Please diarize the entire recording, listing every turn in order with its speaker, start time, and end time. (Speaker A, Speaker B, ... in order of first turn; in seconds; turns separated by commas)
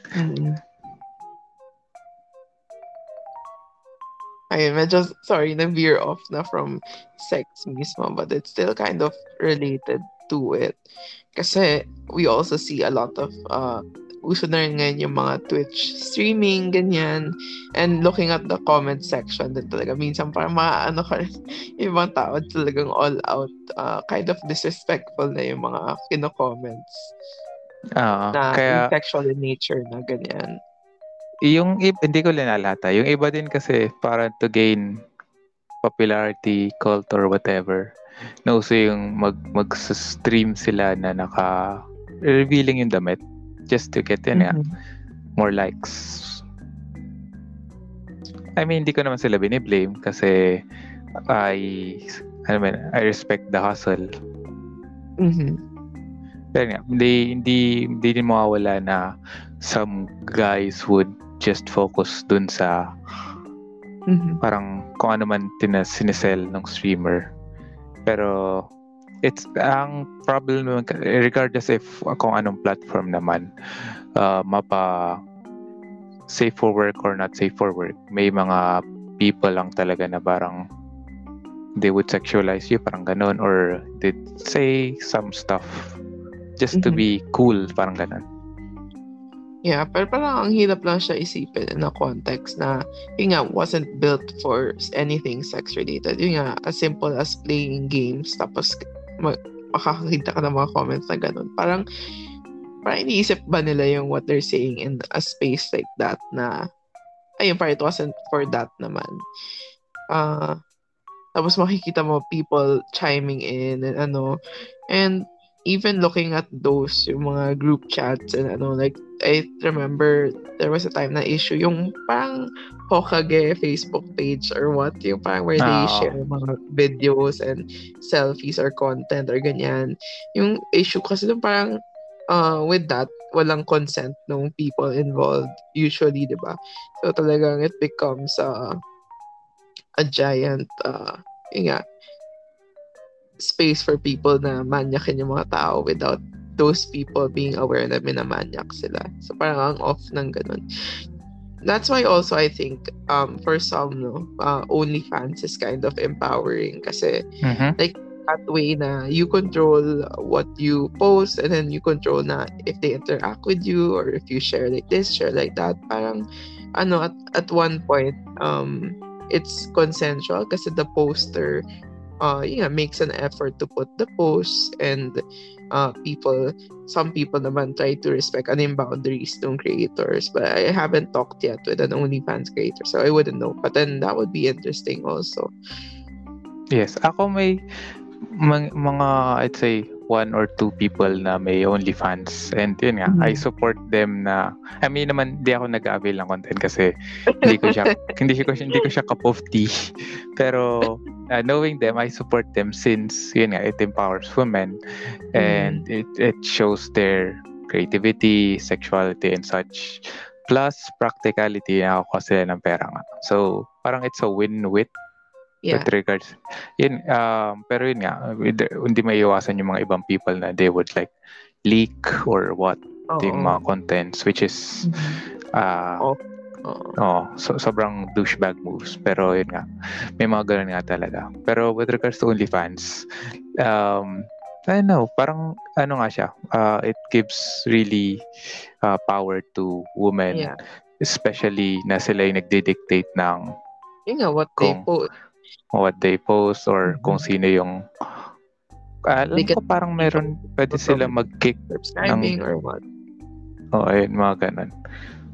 Speaker A: 0.1-0.6, Speaker A: 4.5-10.8, Speaker A: 11.3-21.3, Speaker A: 21.8-27.1, Speaker B: 28.0-28.9, Speaker A: 28.3-30.6, Speaker B: 31.5-34.8, Speaker B: 35.8-37.9, Speaker B: 38.5-44.6, Speaker A: 44.4-44.7, Speaker B: 45.4-46.4, Speaker B: 48.6-50.6, Speaker B: 51.3-54.1, Speaker A: 55.2-55.6, Speaker B: 56.5-59.0, Speaker B: 59.6-62.8, Speaker A: 64.1-64.4, Speaker B: 64.4-67.3, Speaker B: 68.1-68.7, Speaker B: 69.2-73.5, Speaker B: 74.2-75.2, Speaker B: 76.3-80.6, Speaker B: 81.8-86.0, Speaker B: 86.6-88.2, Speaker A: 86.7-87.0, Speaker A: 89.7-101.8, Speaker A: 102.8-106.6, Speaker A: 107.4-109.2, Speaker A: 110.1-110.6, Speaker A: 111.3-114.4, Speaker A: 114.9-131.7, Speaker B: 125.6-126.2, Speaker A: 132.3-138.8, Speaker A: 140.0-141.8, Speaker A: 143.4-150.6, Speaker A: 151.7-157.2, Speaker B: 157.4-157.8, Speaker A: 157.8-166.2, Speaker A: 166.8-171.6, Speaker A: 172.2-175.2, Speaker A: 175.7-185.5, Speaker B: 186.7-187.6, Speaker B: 188.4-204.8, Speaker A: 193.1-193.4, Speaker A: 197.4-198.1, Speaker B: 205.3-214.9, Speaker A: 205.4-205.8, Speaker B: 215.7-221.1, Speaker B: 221.7-225.0, Speaker A: 223.1-223.6, Speaker A: 224.8-225.2, Speaker B: 225.6-226.1, Speaker A: 226.0-227.0, Speaker B: 227.0-229.7, Speaker B: 230.2-233.1, Speaker B: 233.6-238.2, Speaker B: 238.8-243.4, Speaker A: 240.3-240.6, Speaker A: 244.1-245.1, Speaker B: 244.6-244.8, Speaker B: 245.7-248.2, Speaker A: 246.9-247.3, Speaker B: 249.1-252.4, Speaker A: 249.3-251.2, Speaker A: 251.9-252.8, Speaker B: 253.7-254.7